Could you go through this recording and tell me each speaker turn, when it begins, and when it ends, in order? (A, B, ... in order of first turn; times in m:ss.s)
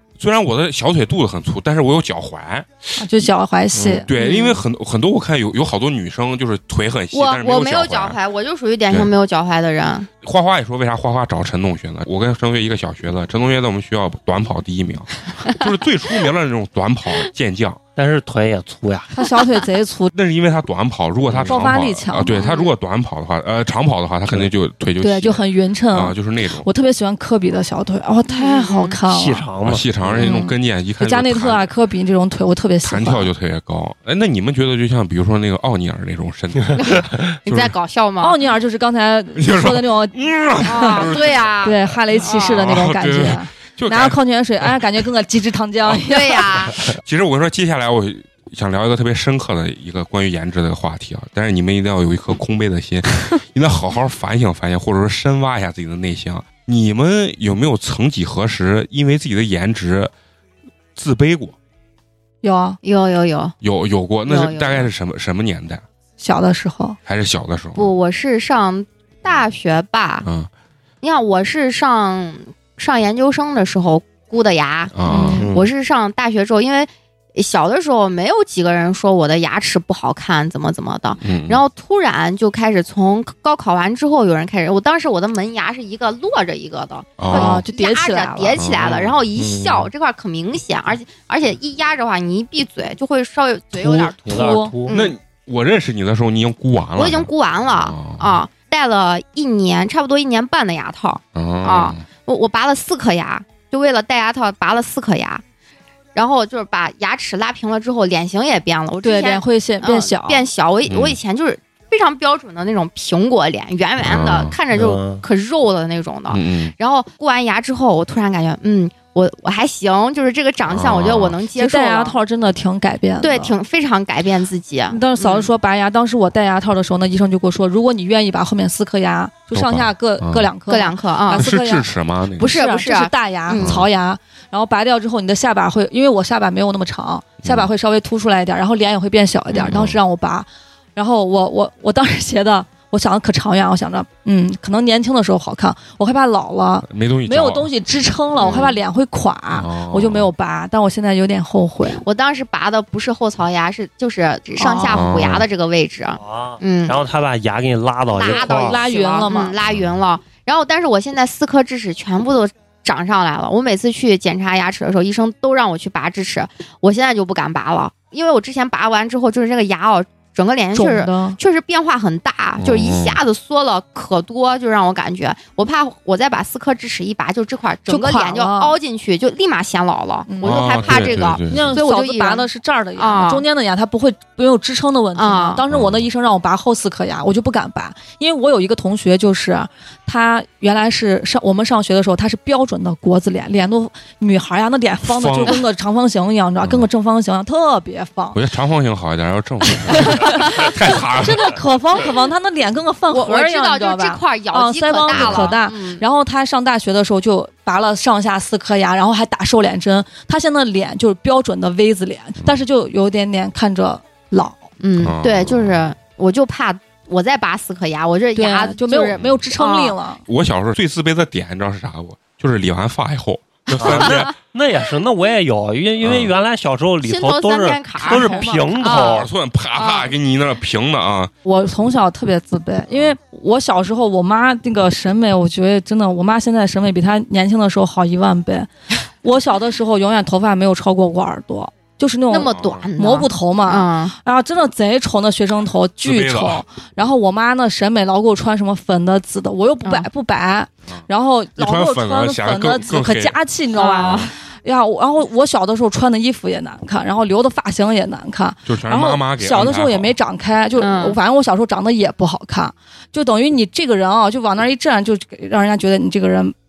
0:00.2-0:02.7 A
0:03.0-0:04.1 B
0:03.8-0:04.1 C
0:04.1-0:08.2 A
0:04.2-0:04.6 D
0:07.1-0:10.1 D
0:10.2-0:17.8 A
0:18.0-0:19.1 C
0:19.2-0:20.1 B
0:20.1-0:26.7 A
0:21.3-0:21.6 C
0:21.5-0:22.4 B
0:22.3-0:22.7 D
0:25.0-0:29.5 B
0:28.3-0:29.0 D
0:29.1-0:30.4 C
0:29.6-0:31.7 A
0:30.2-0:33.3 B
0:32.8-0:37.7 A
0:36.8-0:38.3 D
0:38.2-0:41.1 B
0:39.4-0:41.5 A
0:40.6-0:42.6 D
0:41.6-0:46.7 B
0:42.2-0:44.2 A
0:46.0-0:46.8 D
0:46.9-1:00.1 A
1:01.0-1:01.6 A
1:02.4-1:02.8 B
1:02.8-1:03.5 D
1:03.6-1:05.8 A
1:04.2-1:04.9 D
1:06.2-1:07.0 B
1:07.0-1:07.9 A
1:07.7-1:10.3 D
1:10.2-1:10.5 A
1:11.0-1:35.1 D
1:14.9-1:15.4 A
1:15.0-1:15.5 B
1:15.3-1:15.7 C
1:21.2-1:21.6 A
1:27.2-1:27.6 A
1:27.3-1:28.6 B
1:28.6-1:29.1 A
1:28.9-1:29.9 C
1:33.7-1:34.7 B
1:34.2-1:34.9 C
1:34.9-1:38.4 A
1:37.0-1:45.4 D
1:41.3-1:42.0 A
1:46.1-2:02.1 D
1:49.0-1:50.4 B
1:50.9-1:51.2 A
1:54.0-1:54.5 A
1:54.7-1:55.2 C
1:56.3-1:56.7 A
2:00.7-2:01.4 A
2:01.6-2:03.5 B
2:03.2-2:05.5 D
2:04.9-2:32.0 B
2:09.5-2:10.5 A
2:10.7-2:11.4 D
2:11.3-2:12.5 A
2:12.4-2:13.8 D
2:13.5-2:13.9 A
2:17.4-2:17.7 A
2:19.5-2:19.8 D
2:19.7-2:20.0 A
2:26.9-2:27.7 A
2:28.4-2:28.8 D
2:29.5-2:30.3 A
2:32.0-2:37.0 D
2:34.6-2:35.0 B
2:34.9-2:35.4 A
2:36.2-2:38.8 C
2:38.1-3:03.4 D
2:38.2-2:39.5 B
2:39.6-2:40.0 A
2:50.7-2:51.4 B
2:52.6-2:53.2 A
2:57.9-2:58.8 B
3:00.3-3:00.6 B
3:00.4-3:01.7 A
3:01.5-3:18.4 B
3:05.1-3:05.6 D
3:05.7-3:06.1 A
3:15.1-3:15.6 A
3:16.6-3:16.9 A
3:18.3-3:21.6 A
3:19.7-3:34.6 B
3:23.1-3:26.0 D
3:25.1-3:25.5 A
3:34.8-3:40.0 D
3:35.0-3:35.8 A
3:38.3-3:40.2 B
3:39.1-3:39.4 A
3:40.2-3:44.3 A
3:43.8-3:49.3 C
3:46.0-3:46.3 A
3:47.0-3:49.2 D
3:48.0-3:48.9 B
3:48.9-3:51.3 A
3:51.4-3:58.7 B
3:52.9-3:53.2 A
3:59.2-4:26.5 B
4:02.3-4:04.1 D
4:02.5-4:02.8 A
4:06.0-4:06.6 A
4:11.6-4:13.4 A
4:13.7-4:14.3 D
4:14.0-4:14.3 A
4:18.7-4:20.1 A
4:20.8-4:21.2 D